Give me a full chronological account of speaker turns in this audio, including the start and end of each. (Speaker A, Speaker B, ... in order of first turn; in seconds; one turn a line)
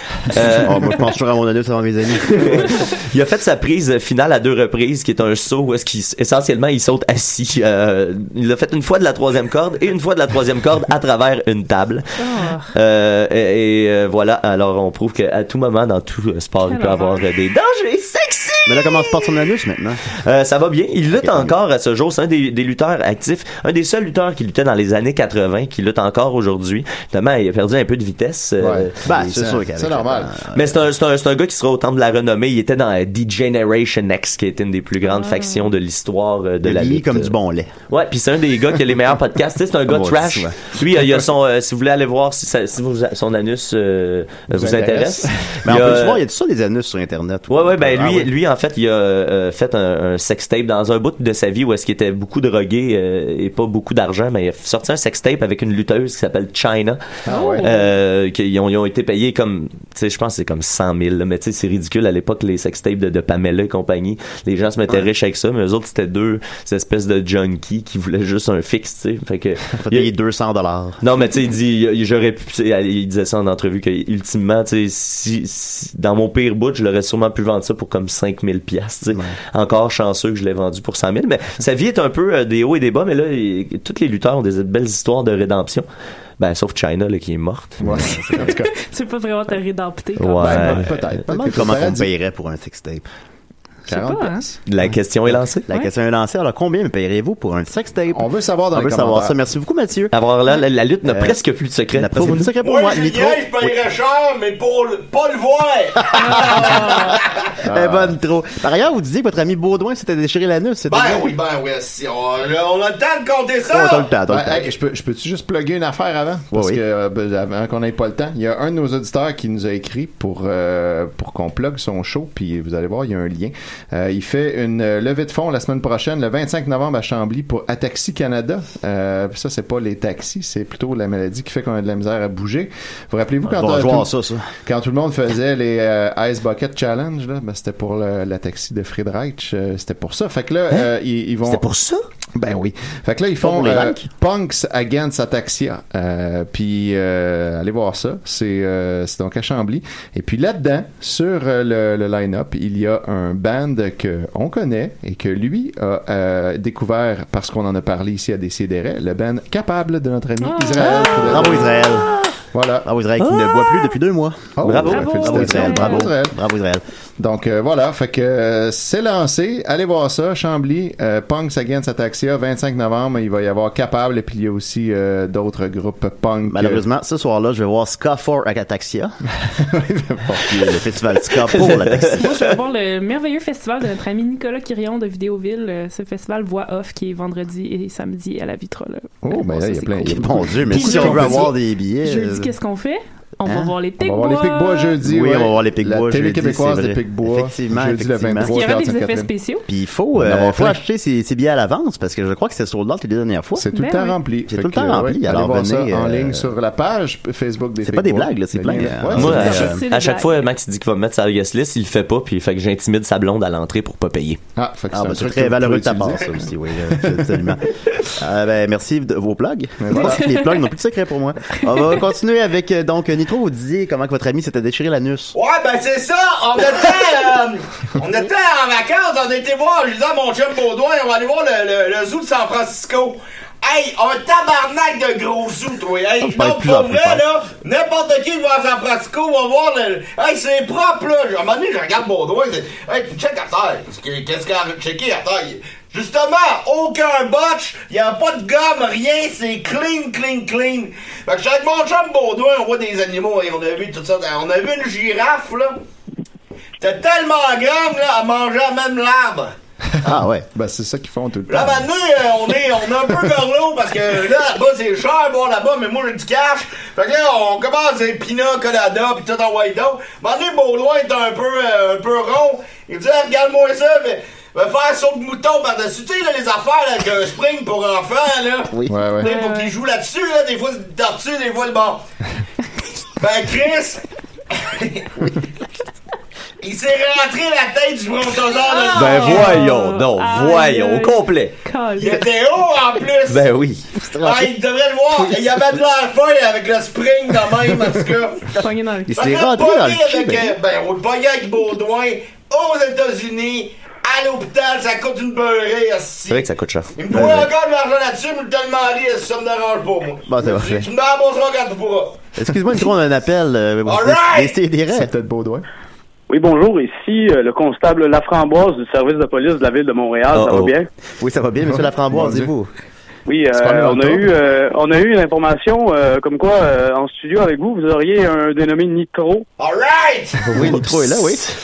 Speaker A: 0.3-1.0
Speaker B: 0.6-2.7
Speaker A: 2.3-19.5
Speaker C: 12.2-12.7
Speaker C: 16.6-17.2
Speaker B: 18.6-20.1
Speaker A: 20.1-29.0
Speaker B: 21.2-21.5
Speaker D: 28.6-30.3
Speaker B: 29.0-30.8
Speaker A: 30.5-37.3
Speaker C: 35.0-35.7
Speaker B: 36.6-37.7
Speaker A: 37.9-46.2
Speaker B: 39.9-40.8
Speaker D: 44.5-45.6
Speaker B: 45.6-48.3
Speaker A: 47.5-70.1
Speaker D: 57.2-57.7
Speaker C: 57.3-57.9
Speaker B: 69.7-71.0
Speaker A: 71.0-85.8
Speaker A: 86.4-87.9
Speaker D: 87.8-88.7
Speaker B: 87.9-88.4
Speaker C: 88.3-90.8
Speaker A: 90.2-90.9
Speaker D: 90.4-92.1
Speaker B: 91.3-93.0
Speaker C: 93.9-94.4
Speaker D: 93.9-94.6
Speaker A: 94.7-95.7
Speaker B: 95.7-100.1
Speaker D: 98.1-99.3
Speaker A: 100.1-102.5
Speaker B: 101.0-101.3
Speaker B: 101.9-103.7
Speaker E: 102.6-107.5
Speaker B: 106.2-107.0
Speaker C: 106.4-107.1
Speaker D: 107.6-108.1
Speaker B: 107.7-111.3
Speaker E: 110.9-114.1
Speaker B: 113.7-114.7
Speaker D: 114.3-134.1
Speaker B: 116.5-116.8
Speaker B: 133.5-134.5
Speaker D: 134.6-141.6
Speaker A: 141.5-142.0
Speaker D: 142.3-161.8
Speaker B: 143.4-144.1
Speaker C: 160.4-162.0
Speaker B: 160.8-162.1
Speaker D: 162.5-162.9
Speaker B: 162.8-166.8
Speaker A: 163.2-164.0
Speaker D: 164.6-166.4
Speaker A: 164.6-165.4
Speaker C: 164.8-166.1
Speaker D: 167.2-176.8
Speaker B: 176.5-179.2
Speaker D: 179.5-180.8
Speaker B: 180.6-182.2
Speaker A: 181.4-182.6
Speaker C: 182.1-194.9
Speaker D: 189.2-191.5
Speaker B: 190.1-192.5
Speaker B: 193.4-193.7
Speaker D: 194.0-199.3
Speaker B: 195.0-198.5
Speaker C: 198.5-199.7
Speaker B: 199.7-203.6
Speaker D: 200.1-200.8
Speaker D: 203.6-209.7
Speaker C: 203.6-204.2
Speaker B: 204.5-206.5
Speaker B: 207.8-209.8
Speaker A: 209.1-214.4
Speaker C: 209.5-210.4
Speaker D: 214.6-216.5
Speaker B: 214.9-217.6
Speaker D: 217.1-217.3
Speaker B: 218.2-225.3
Speaker D: 219.8-220.2
Speaker C: 219.9-220.6
Speaker E: 225.3-255.8
Speaker B: 236.2-237.2
Speaker E: 256.8-259.5
Speaker D: 260.0-261.9
Speaker B: 260.0-260.4
Speaker E: 261.5-282.0
Speaker D: 278.9-279.3
Speaker C: 279.2-279.7
Speaker E: 283.2-285.1
Speaker E: 286.6-289.7
Speaker C: 288.7-292.2
Speaker A: 288.9-291.6
Speaker E: 292.0-293.5
Speaker A: 293.3-293.9
Speaker B: 293.9-294.5
Speaker E: 294.2-298.5
Speaker B: 295.1-295.6
Speaker C: 298.6-299.3
Speaker B: 299.1-300.5
Speaker E: 299.1-306.4
Speaker A: 306.3-306.9
Speaker E: 306.9-312.2
Speaker B: 307.1-307.5
Speaker B: 310.3-310.9
Speaker B: 312.4-315.1
Speaker E: 313.9-314.6
Speaker D: 314.9-315.6
Speaker F: 316.3-320.9
Speaker A: 320.3-320.7
Speaker B: 321.2-322.7
Speaker D: 322.1-322.5
Speaker F: 323.3-329.4
Speaker D: 323.5-324.3
Speaker E: 329.6-330.5
Speaker B: 330.5-331.5
Speaker A: 330.6-331.4